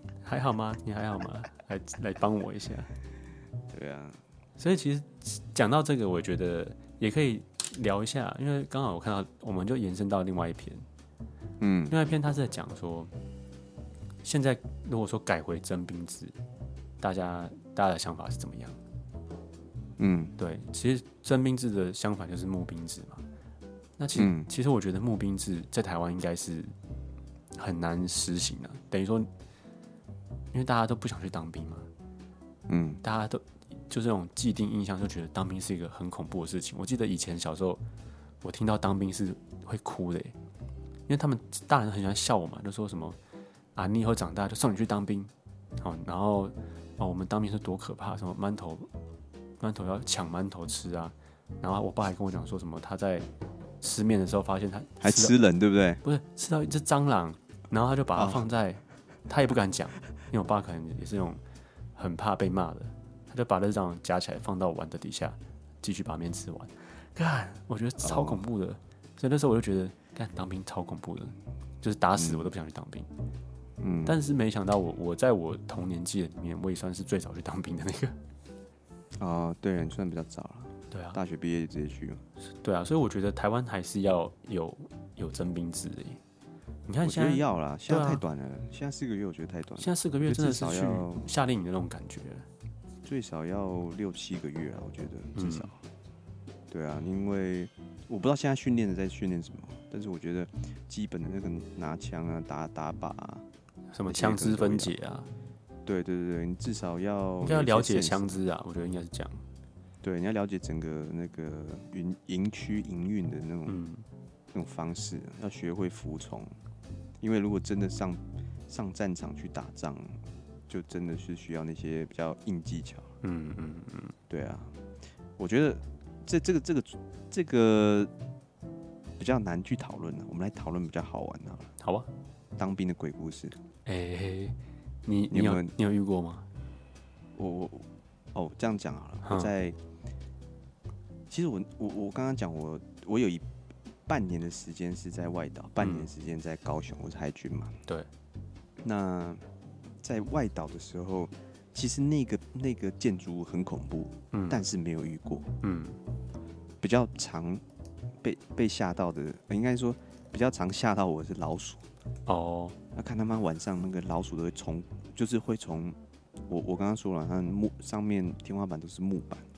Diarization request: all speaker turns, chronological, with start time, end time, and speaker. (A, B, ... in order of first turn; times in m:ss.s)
0:00.2-0:02.9 A
0:03.7-0:04.2 B
0:04.6-0:10.8 A
0:11.6-0:12.0 B
0:11.9-0:13.1 A
0:14.2-0:16.4 A
0:17.0-0:18.8 A
0:20.0-0:20.3 B
0:20.4-0:23.2 A
0:24.0-0:26.7 A
0:24.2-0:24.5 B
0:27.6-0:29.3 A
0:30.5-0:31.9 A
0:32.7-0:33.0 B
0:33.0-0:37.8 A
0:38.4-0:40.4 A
0:41.1-0:43.2 A
0:43.8-0:48.9 A
0:49.6-0:53.3 A
0:53.8-0:55.4 A
0:55.0-0:56.0 B
0:56.0-1:01.4 A
0:58.2-0:58.5 B
1:02.0-1:13.1 A
1:08.0-1:08.4 B
1:12.2-1:12.5 B
1:13.8-1:14.2 B
1:14.1-1:18.2 A
1:19.2-1:22.2 B
1:20.9-1:21.2 A
1:22.4-1:26.2 A
1:26.9-1:28.2 A
1:27.0-1:31.3 B
1:29.8-1:32.5 A
1:33.0-1:35.8 B
1:35.4-1:35.7 A
1:36.7-1:43.4 B
1:43.9-1:45.3 A
1:44.1-1:44.9 B
1:45.9-1:48.3 B
1:47.4-1:49.4 A
1:50.0-1:53.8 B
1:53.7-1:54.0 A
1:54.5-1:56.5 B
1:57.2-2:00.2 B
2:00.7-2:03.1 B
2:03.2-2:04.2 A
2:04.3-2:04.7 B
2:05.4-2:08.1 B
2:09.2-2:11.7 B
2:11.8-2:12.1 A
2:12.6-2:13.6 B
2:13.9-2:16.5 A
2:15.3-2:15.7 B
2:17.4-2:19.8 B
2:19.2-2:19.5 A
2:21.3-2:23.5 B
2:24.1-2:27.8 B
2:25.8-2:26.1 A
2:28.8-2:29.4 B
2:30.0-2:35.5 B
2:34.3-2:34.6 A
2:35.6-2:36.0 A
2:36.8-2:37.6 B
2:38.2-2:41.8 B
2:42.3-2:42.8 A
2:42.9-2:46.0 B
2:46.5-2:49.5 B